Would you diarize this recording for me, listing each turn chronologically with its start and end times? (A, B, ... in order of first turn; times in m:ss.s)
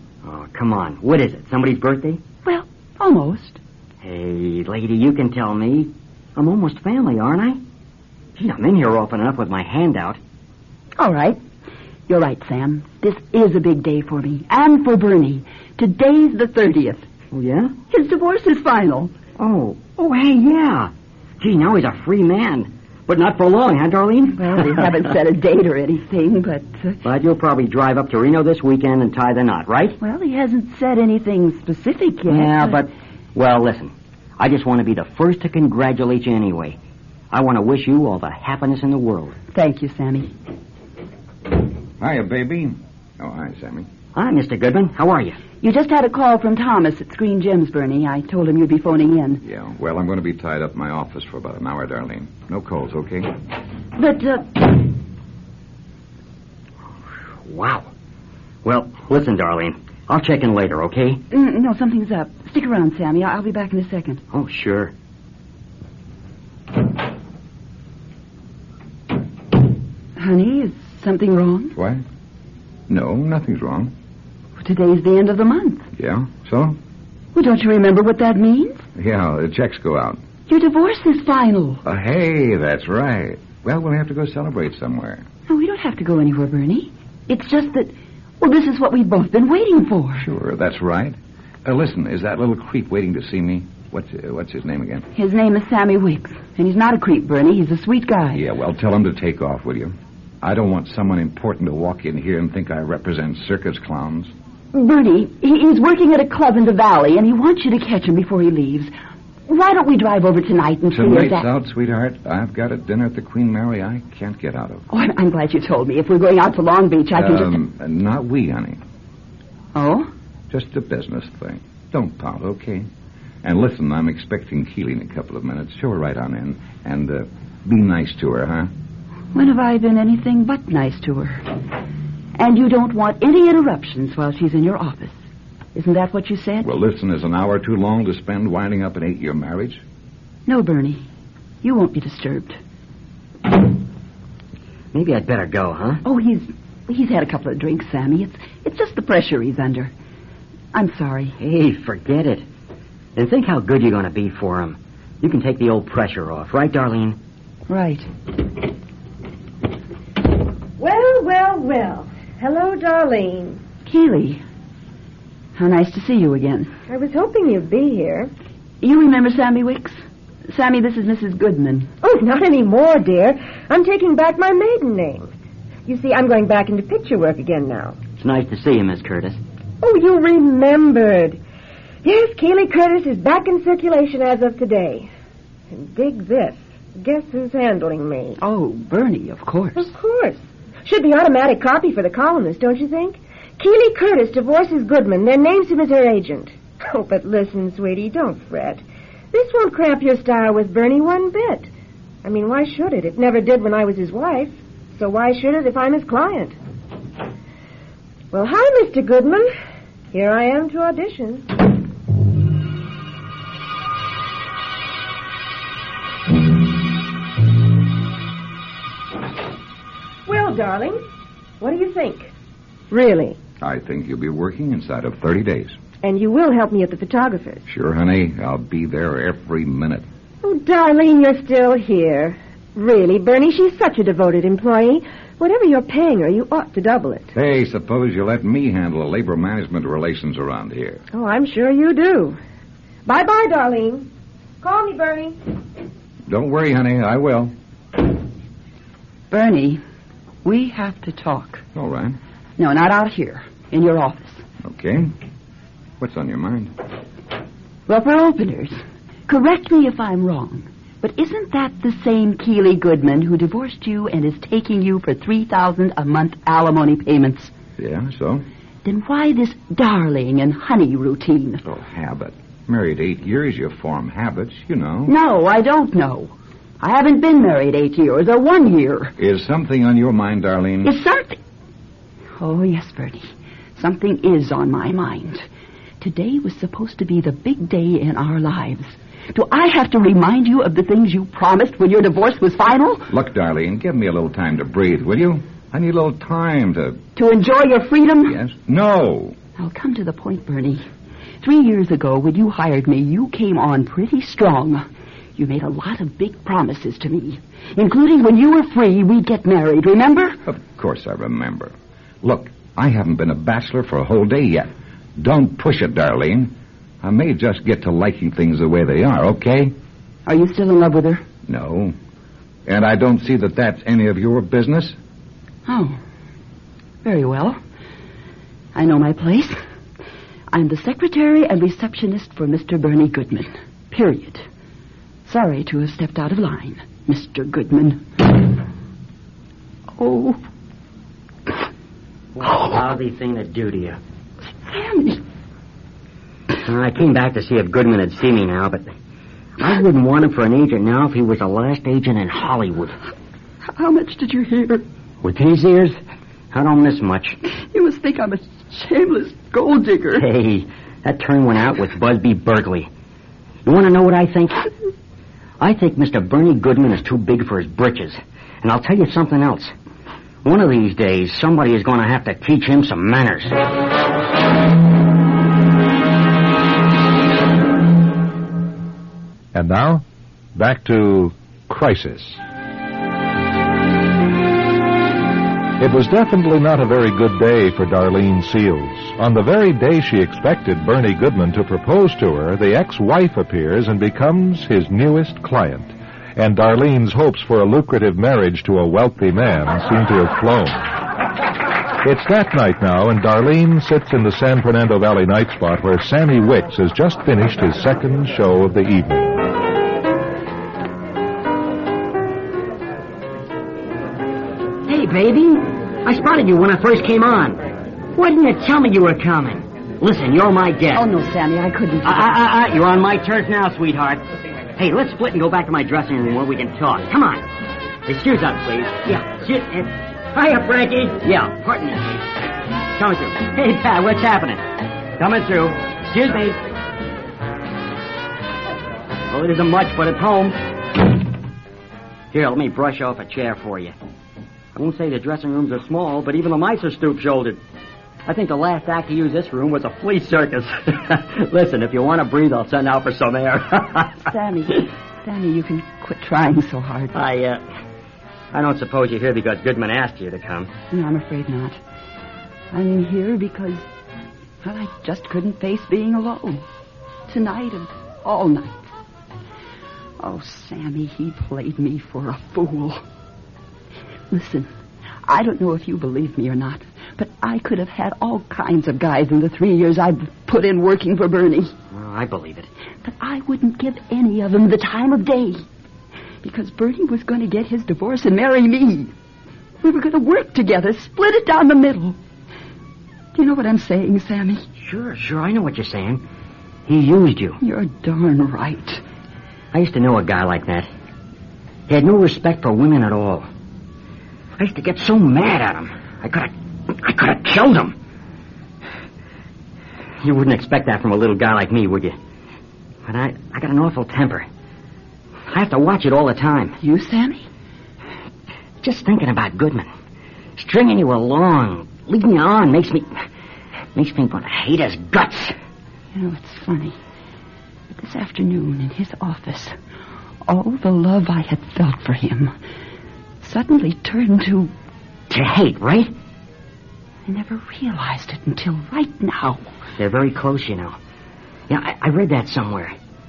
0:00.2-0:02.2 A
0:02.4-0:03.6 B
0:04.0-0:07.6 A
0:08.4-0:10.2 A
0:11.0-0:11.4 B
0:12.1-0:17.0 B
0:17.3-0:17.7 A
0:17.9-0:19.1 B
0:19.4-0:24.9 A
0:24.4-0:27.0 B
0:27.0-0:30.0 A
0:30.0-0:32.8 B
0:32.3-0:36.8 A
0:37.3-0:39.4 A
0:39.5-0:40.3 B
0:42.0-0:43.9 C
0:44.2-0:45.4 A
0:45.6-0:49.4 B
0:49.4-0:53.4 C
0:54.0-0:54.8 B
0:57.4-0:57.9 A
0:58.6-1:01.2 A
1:01.3-1:04.2 B
1:04.3-1:04.9 A
1:10.2-1:11.7 B
1:11.7-1:12.0 C
1:12.9-1:13.9 C
1:14.6-1:15.8 B
1:16.0-1:16.8 C
1:17.3-1:18.8 B
1:19.0-1:20.2 C
1:20.5-1:21.8 B
1:21.8-1:25.2 C
1:25.5-1:30.3 B
1:30.2-1:35.1 C
1:35.2-1:38.4 B
1:38.4-1:44.3 C
1:44.7-1:48.9 B
1:49.5-1:51.5 B
1:50.9-1:54.8 C
1:54.9-1:57.6 B
1:57.2-1:58.8 C
1:59.8-2:00.1 B
2:00.5-2:02.9 C
2:03.4-2:08.7 C
2:09.3-2:11.5 B
2:12.4-2:15.2 B
2:15.7-2:16.7 B
2:16.6-2:19.8 C
2:20.5-2:21.0 B
2:21.6-2:22.6 B
2:24.9-2:26.0 A
2:26.0-2:29.9 B
2:30.7-2:31.4 B
2:31.4-2:32.4 A
2:33.2-2:37.2 A
2:37.7-2:38.1 B
2:40.8-2:43.6 D
2:43.9-2:44.4 B
2:45.6-2:46.7 B
2:46.9-2:48.3 D
2:48.8-2:51.9 B
2:52.0-2:55.3 D
2:55.9-2:58.0 D
2:58.2-2:59.4 A
2:59.8-3:01.4 D
3:02.0-3:05.1 D
3:05.7-3:08.4 D
3:08.4-3:09.9 B
3:09.8-3:21.7 D
3:22.2-3:26.6 D
3:28.3-3:29.5 D
3:30.1-3:31.7 D
3:40.3-3:41.0 D
3:41.6-3:42.3 D
3:42.9-3:43.4 D
3:43.6-3:45.8 C
3:46.0-3:47.6 D
3:47.7-3:50.0 C
3:50.4-3:57.3 D
3:57.3-4:01.0 C
4:01.1-4:02.4 D
4:03.0-4:04.1 D
4:04.6-4:05.4 D
4:06.3-4:07.5 C
4:09.3-4:09.8 B
4:10.4-4:11.6 B
4:11.8-4:12.2 C
4:12.6-4:14.4 B
4:14.6-4:15.1 C
4:16.0-4:16.7 C
4:17.9-4:27.5 B
4:27.8-4:28.4 C
4:28.8-4:31.6 B
4:31.6-4:35.1 C
4:35.1-4:39.1 B
4:39.2-4:40.9 C
4:40.8-4:41.4 B
4:42.4-4:45.5 B
4:46.0-4:53.1 B
4:53.1-4:57.0 C
4:57.2-4:58.4 B
4:58.3-4:59.4 C
4:59.6-5:00.8 B
5:01.4-5:10.4 B
5:10.5-5:19.7 C
5:20.3-5:21.2 B
5:21.5-5:22.0 C
5:22.7-5:25.0 C
5:25.7-5:26.0 B
5:27.0-5:27.6 B
5:28.8-5:29.6 B
5:30.5-5:34.5 B
5:35.3-5:38.6 B
5:40.0-5:40.4 B
5:42.4-5:44.0 A
5:44.5-5:45.2 B
5:46.6-5:48.8 A
5:49.6-5:53.0 A
5:53.7-5:54.8 B
5:55.2-5:56.0 A
5:56.5-5:57.4 A
5:57.5-6:00.3 B
6:00.2-6:02.9 A
6:03.6-6:04.7 A
6:05.6-6:09.7 A
6:10.4-6:13.6 A
6:19.5-6:22.4 E
6:25.8-6:40.9 E
6:42.0-6:49.4 E
6:54.9-6:57.6 A
6:58.2-7:01.1 A
7:00.9-7:02.4 B
7:02.0-7:04.2 A
7:04.8-7:07.4 A
7:08.1-7:12.2 A
7:12.9-7:14.7 A
7:15.2-7:16.6 A
7:19.3-7:20.6 A
7:22.3-7:24.0 A
7:24.8-7:27.6 A
7:28.3-7:34.2 A
7:34.2-7:37.1 B
7:37.1-7:37.6 A
7:38.5-7:40.7 A
7:40.9-7:41.8 B
7:42.7-7:43.9 B
7:44.6-7:46.6 B
7:47.3-7:48.9 B
7:50.2-7:53.0 B
7:54.3-7:54.7 B
7:55.3-8:01.7 B
8:01.9-8:02.7 A
8:03.0-8:05.6 B
8:06.4-8:09.1 B
8:09.8-8:12.2 B
8:13.4-8:14.6 B
8:14.8-8:16.2 A
8:16.9-8:17.6 A
8:17.6-8:19.0 B
8:19.7-8:20.9 A
8:21.9-8:23.5 A
8:24.6-8:28.0 A
8:30.2-8:32.2 A
8:33.1-8:34.5 A
8:35.5-8:36.8 A
8:36.8-8:37.5 B
8:38.8-8:39.9 A
8:40.6-8:43.1 A
8:44.0-8:45.6 A
8:46.1-8:47.0 B
8:47.9-8:49.8 B
8:50.5-8:52.5 B
8:53.4-8:54.7 B
8:55.3-8:56.1 A
8:57.3-8:59.6 B
9:00.0-9:01.0 A
9:01.7-9:03.0 A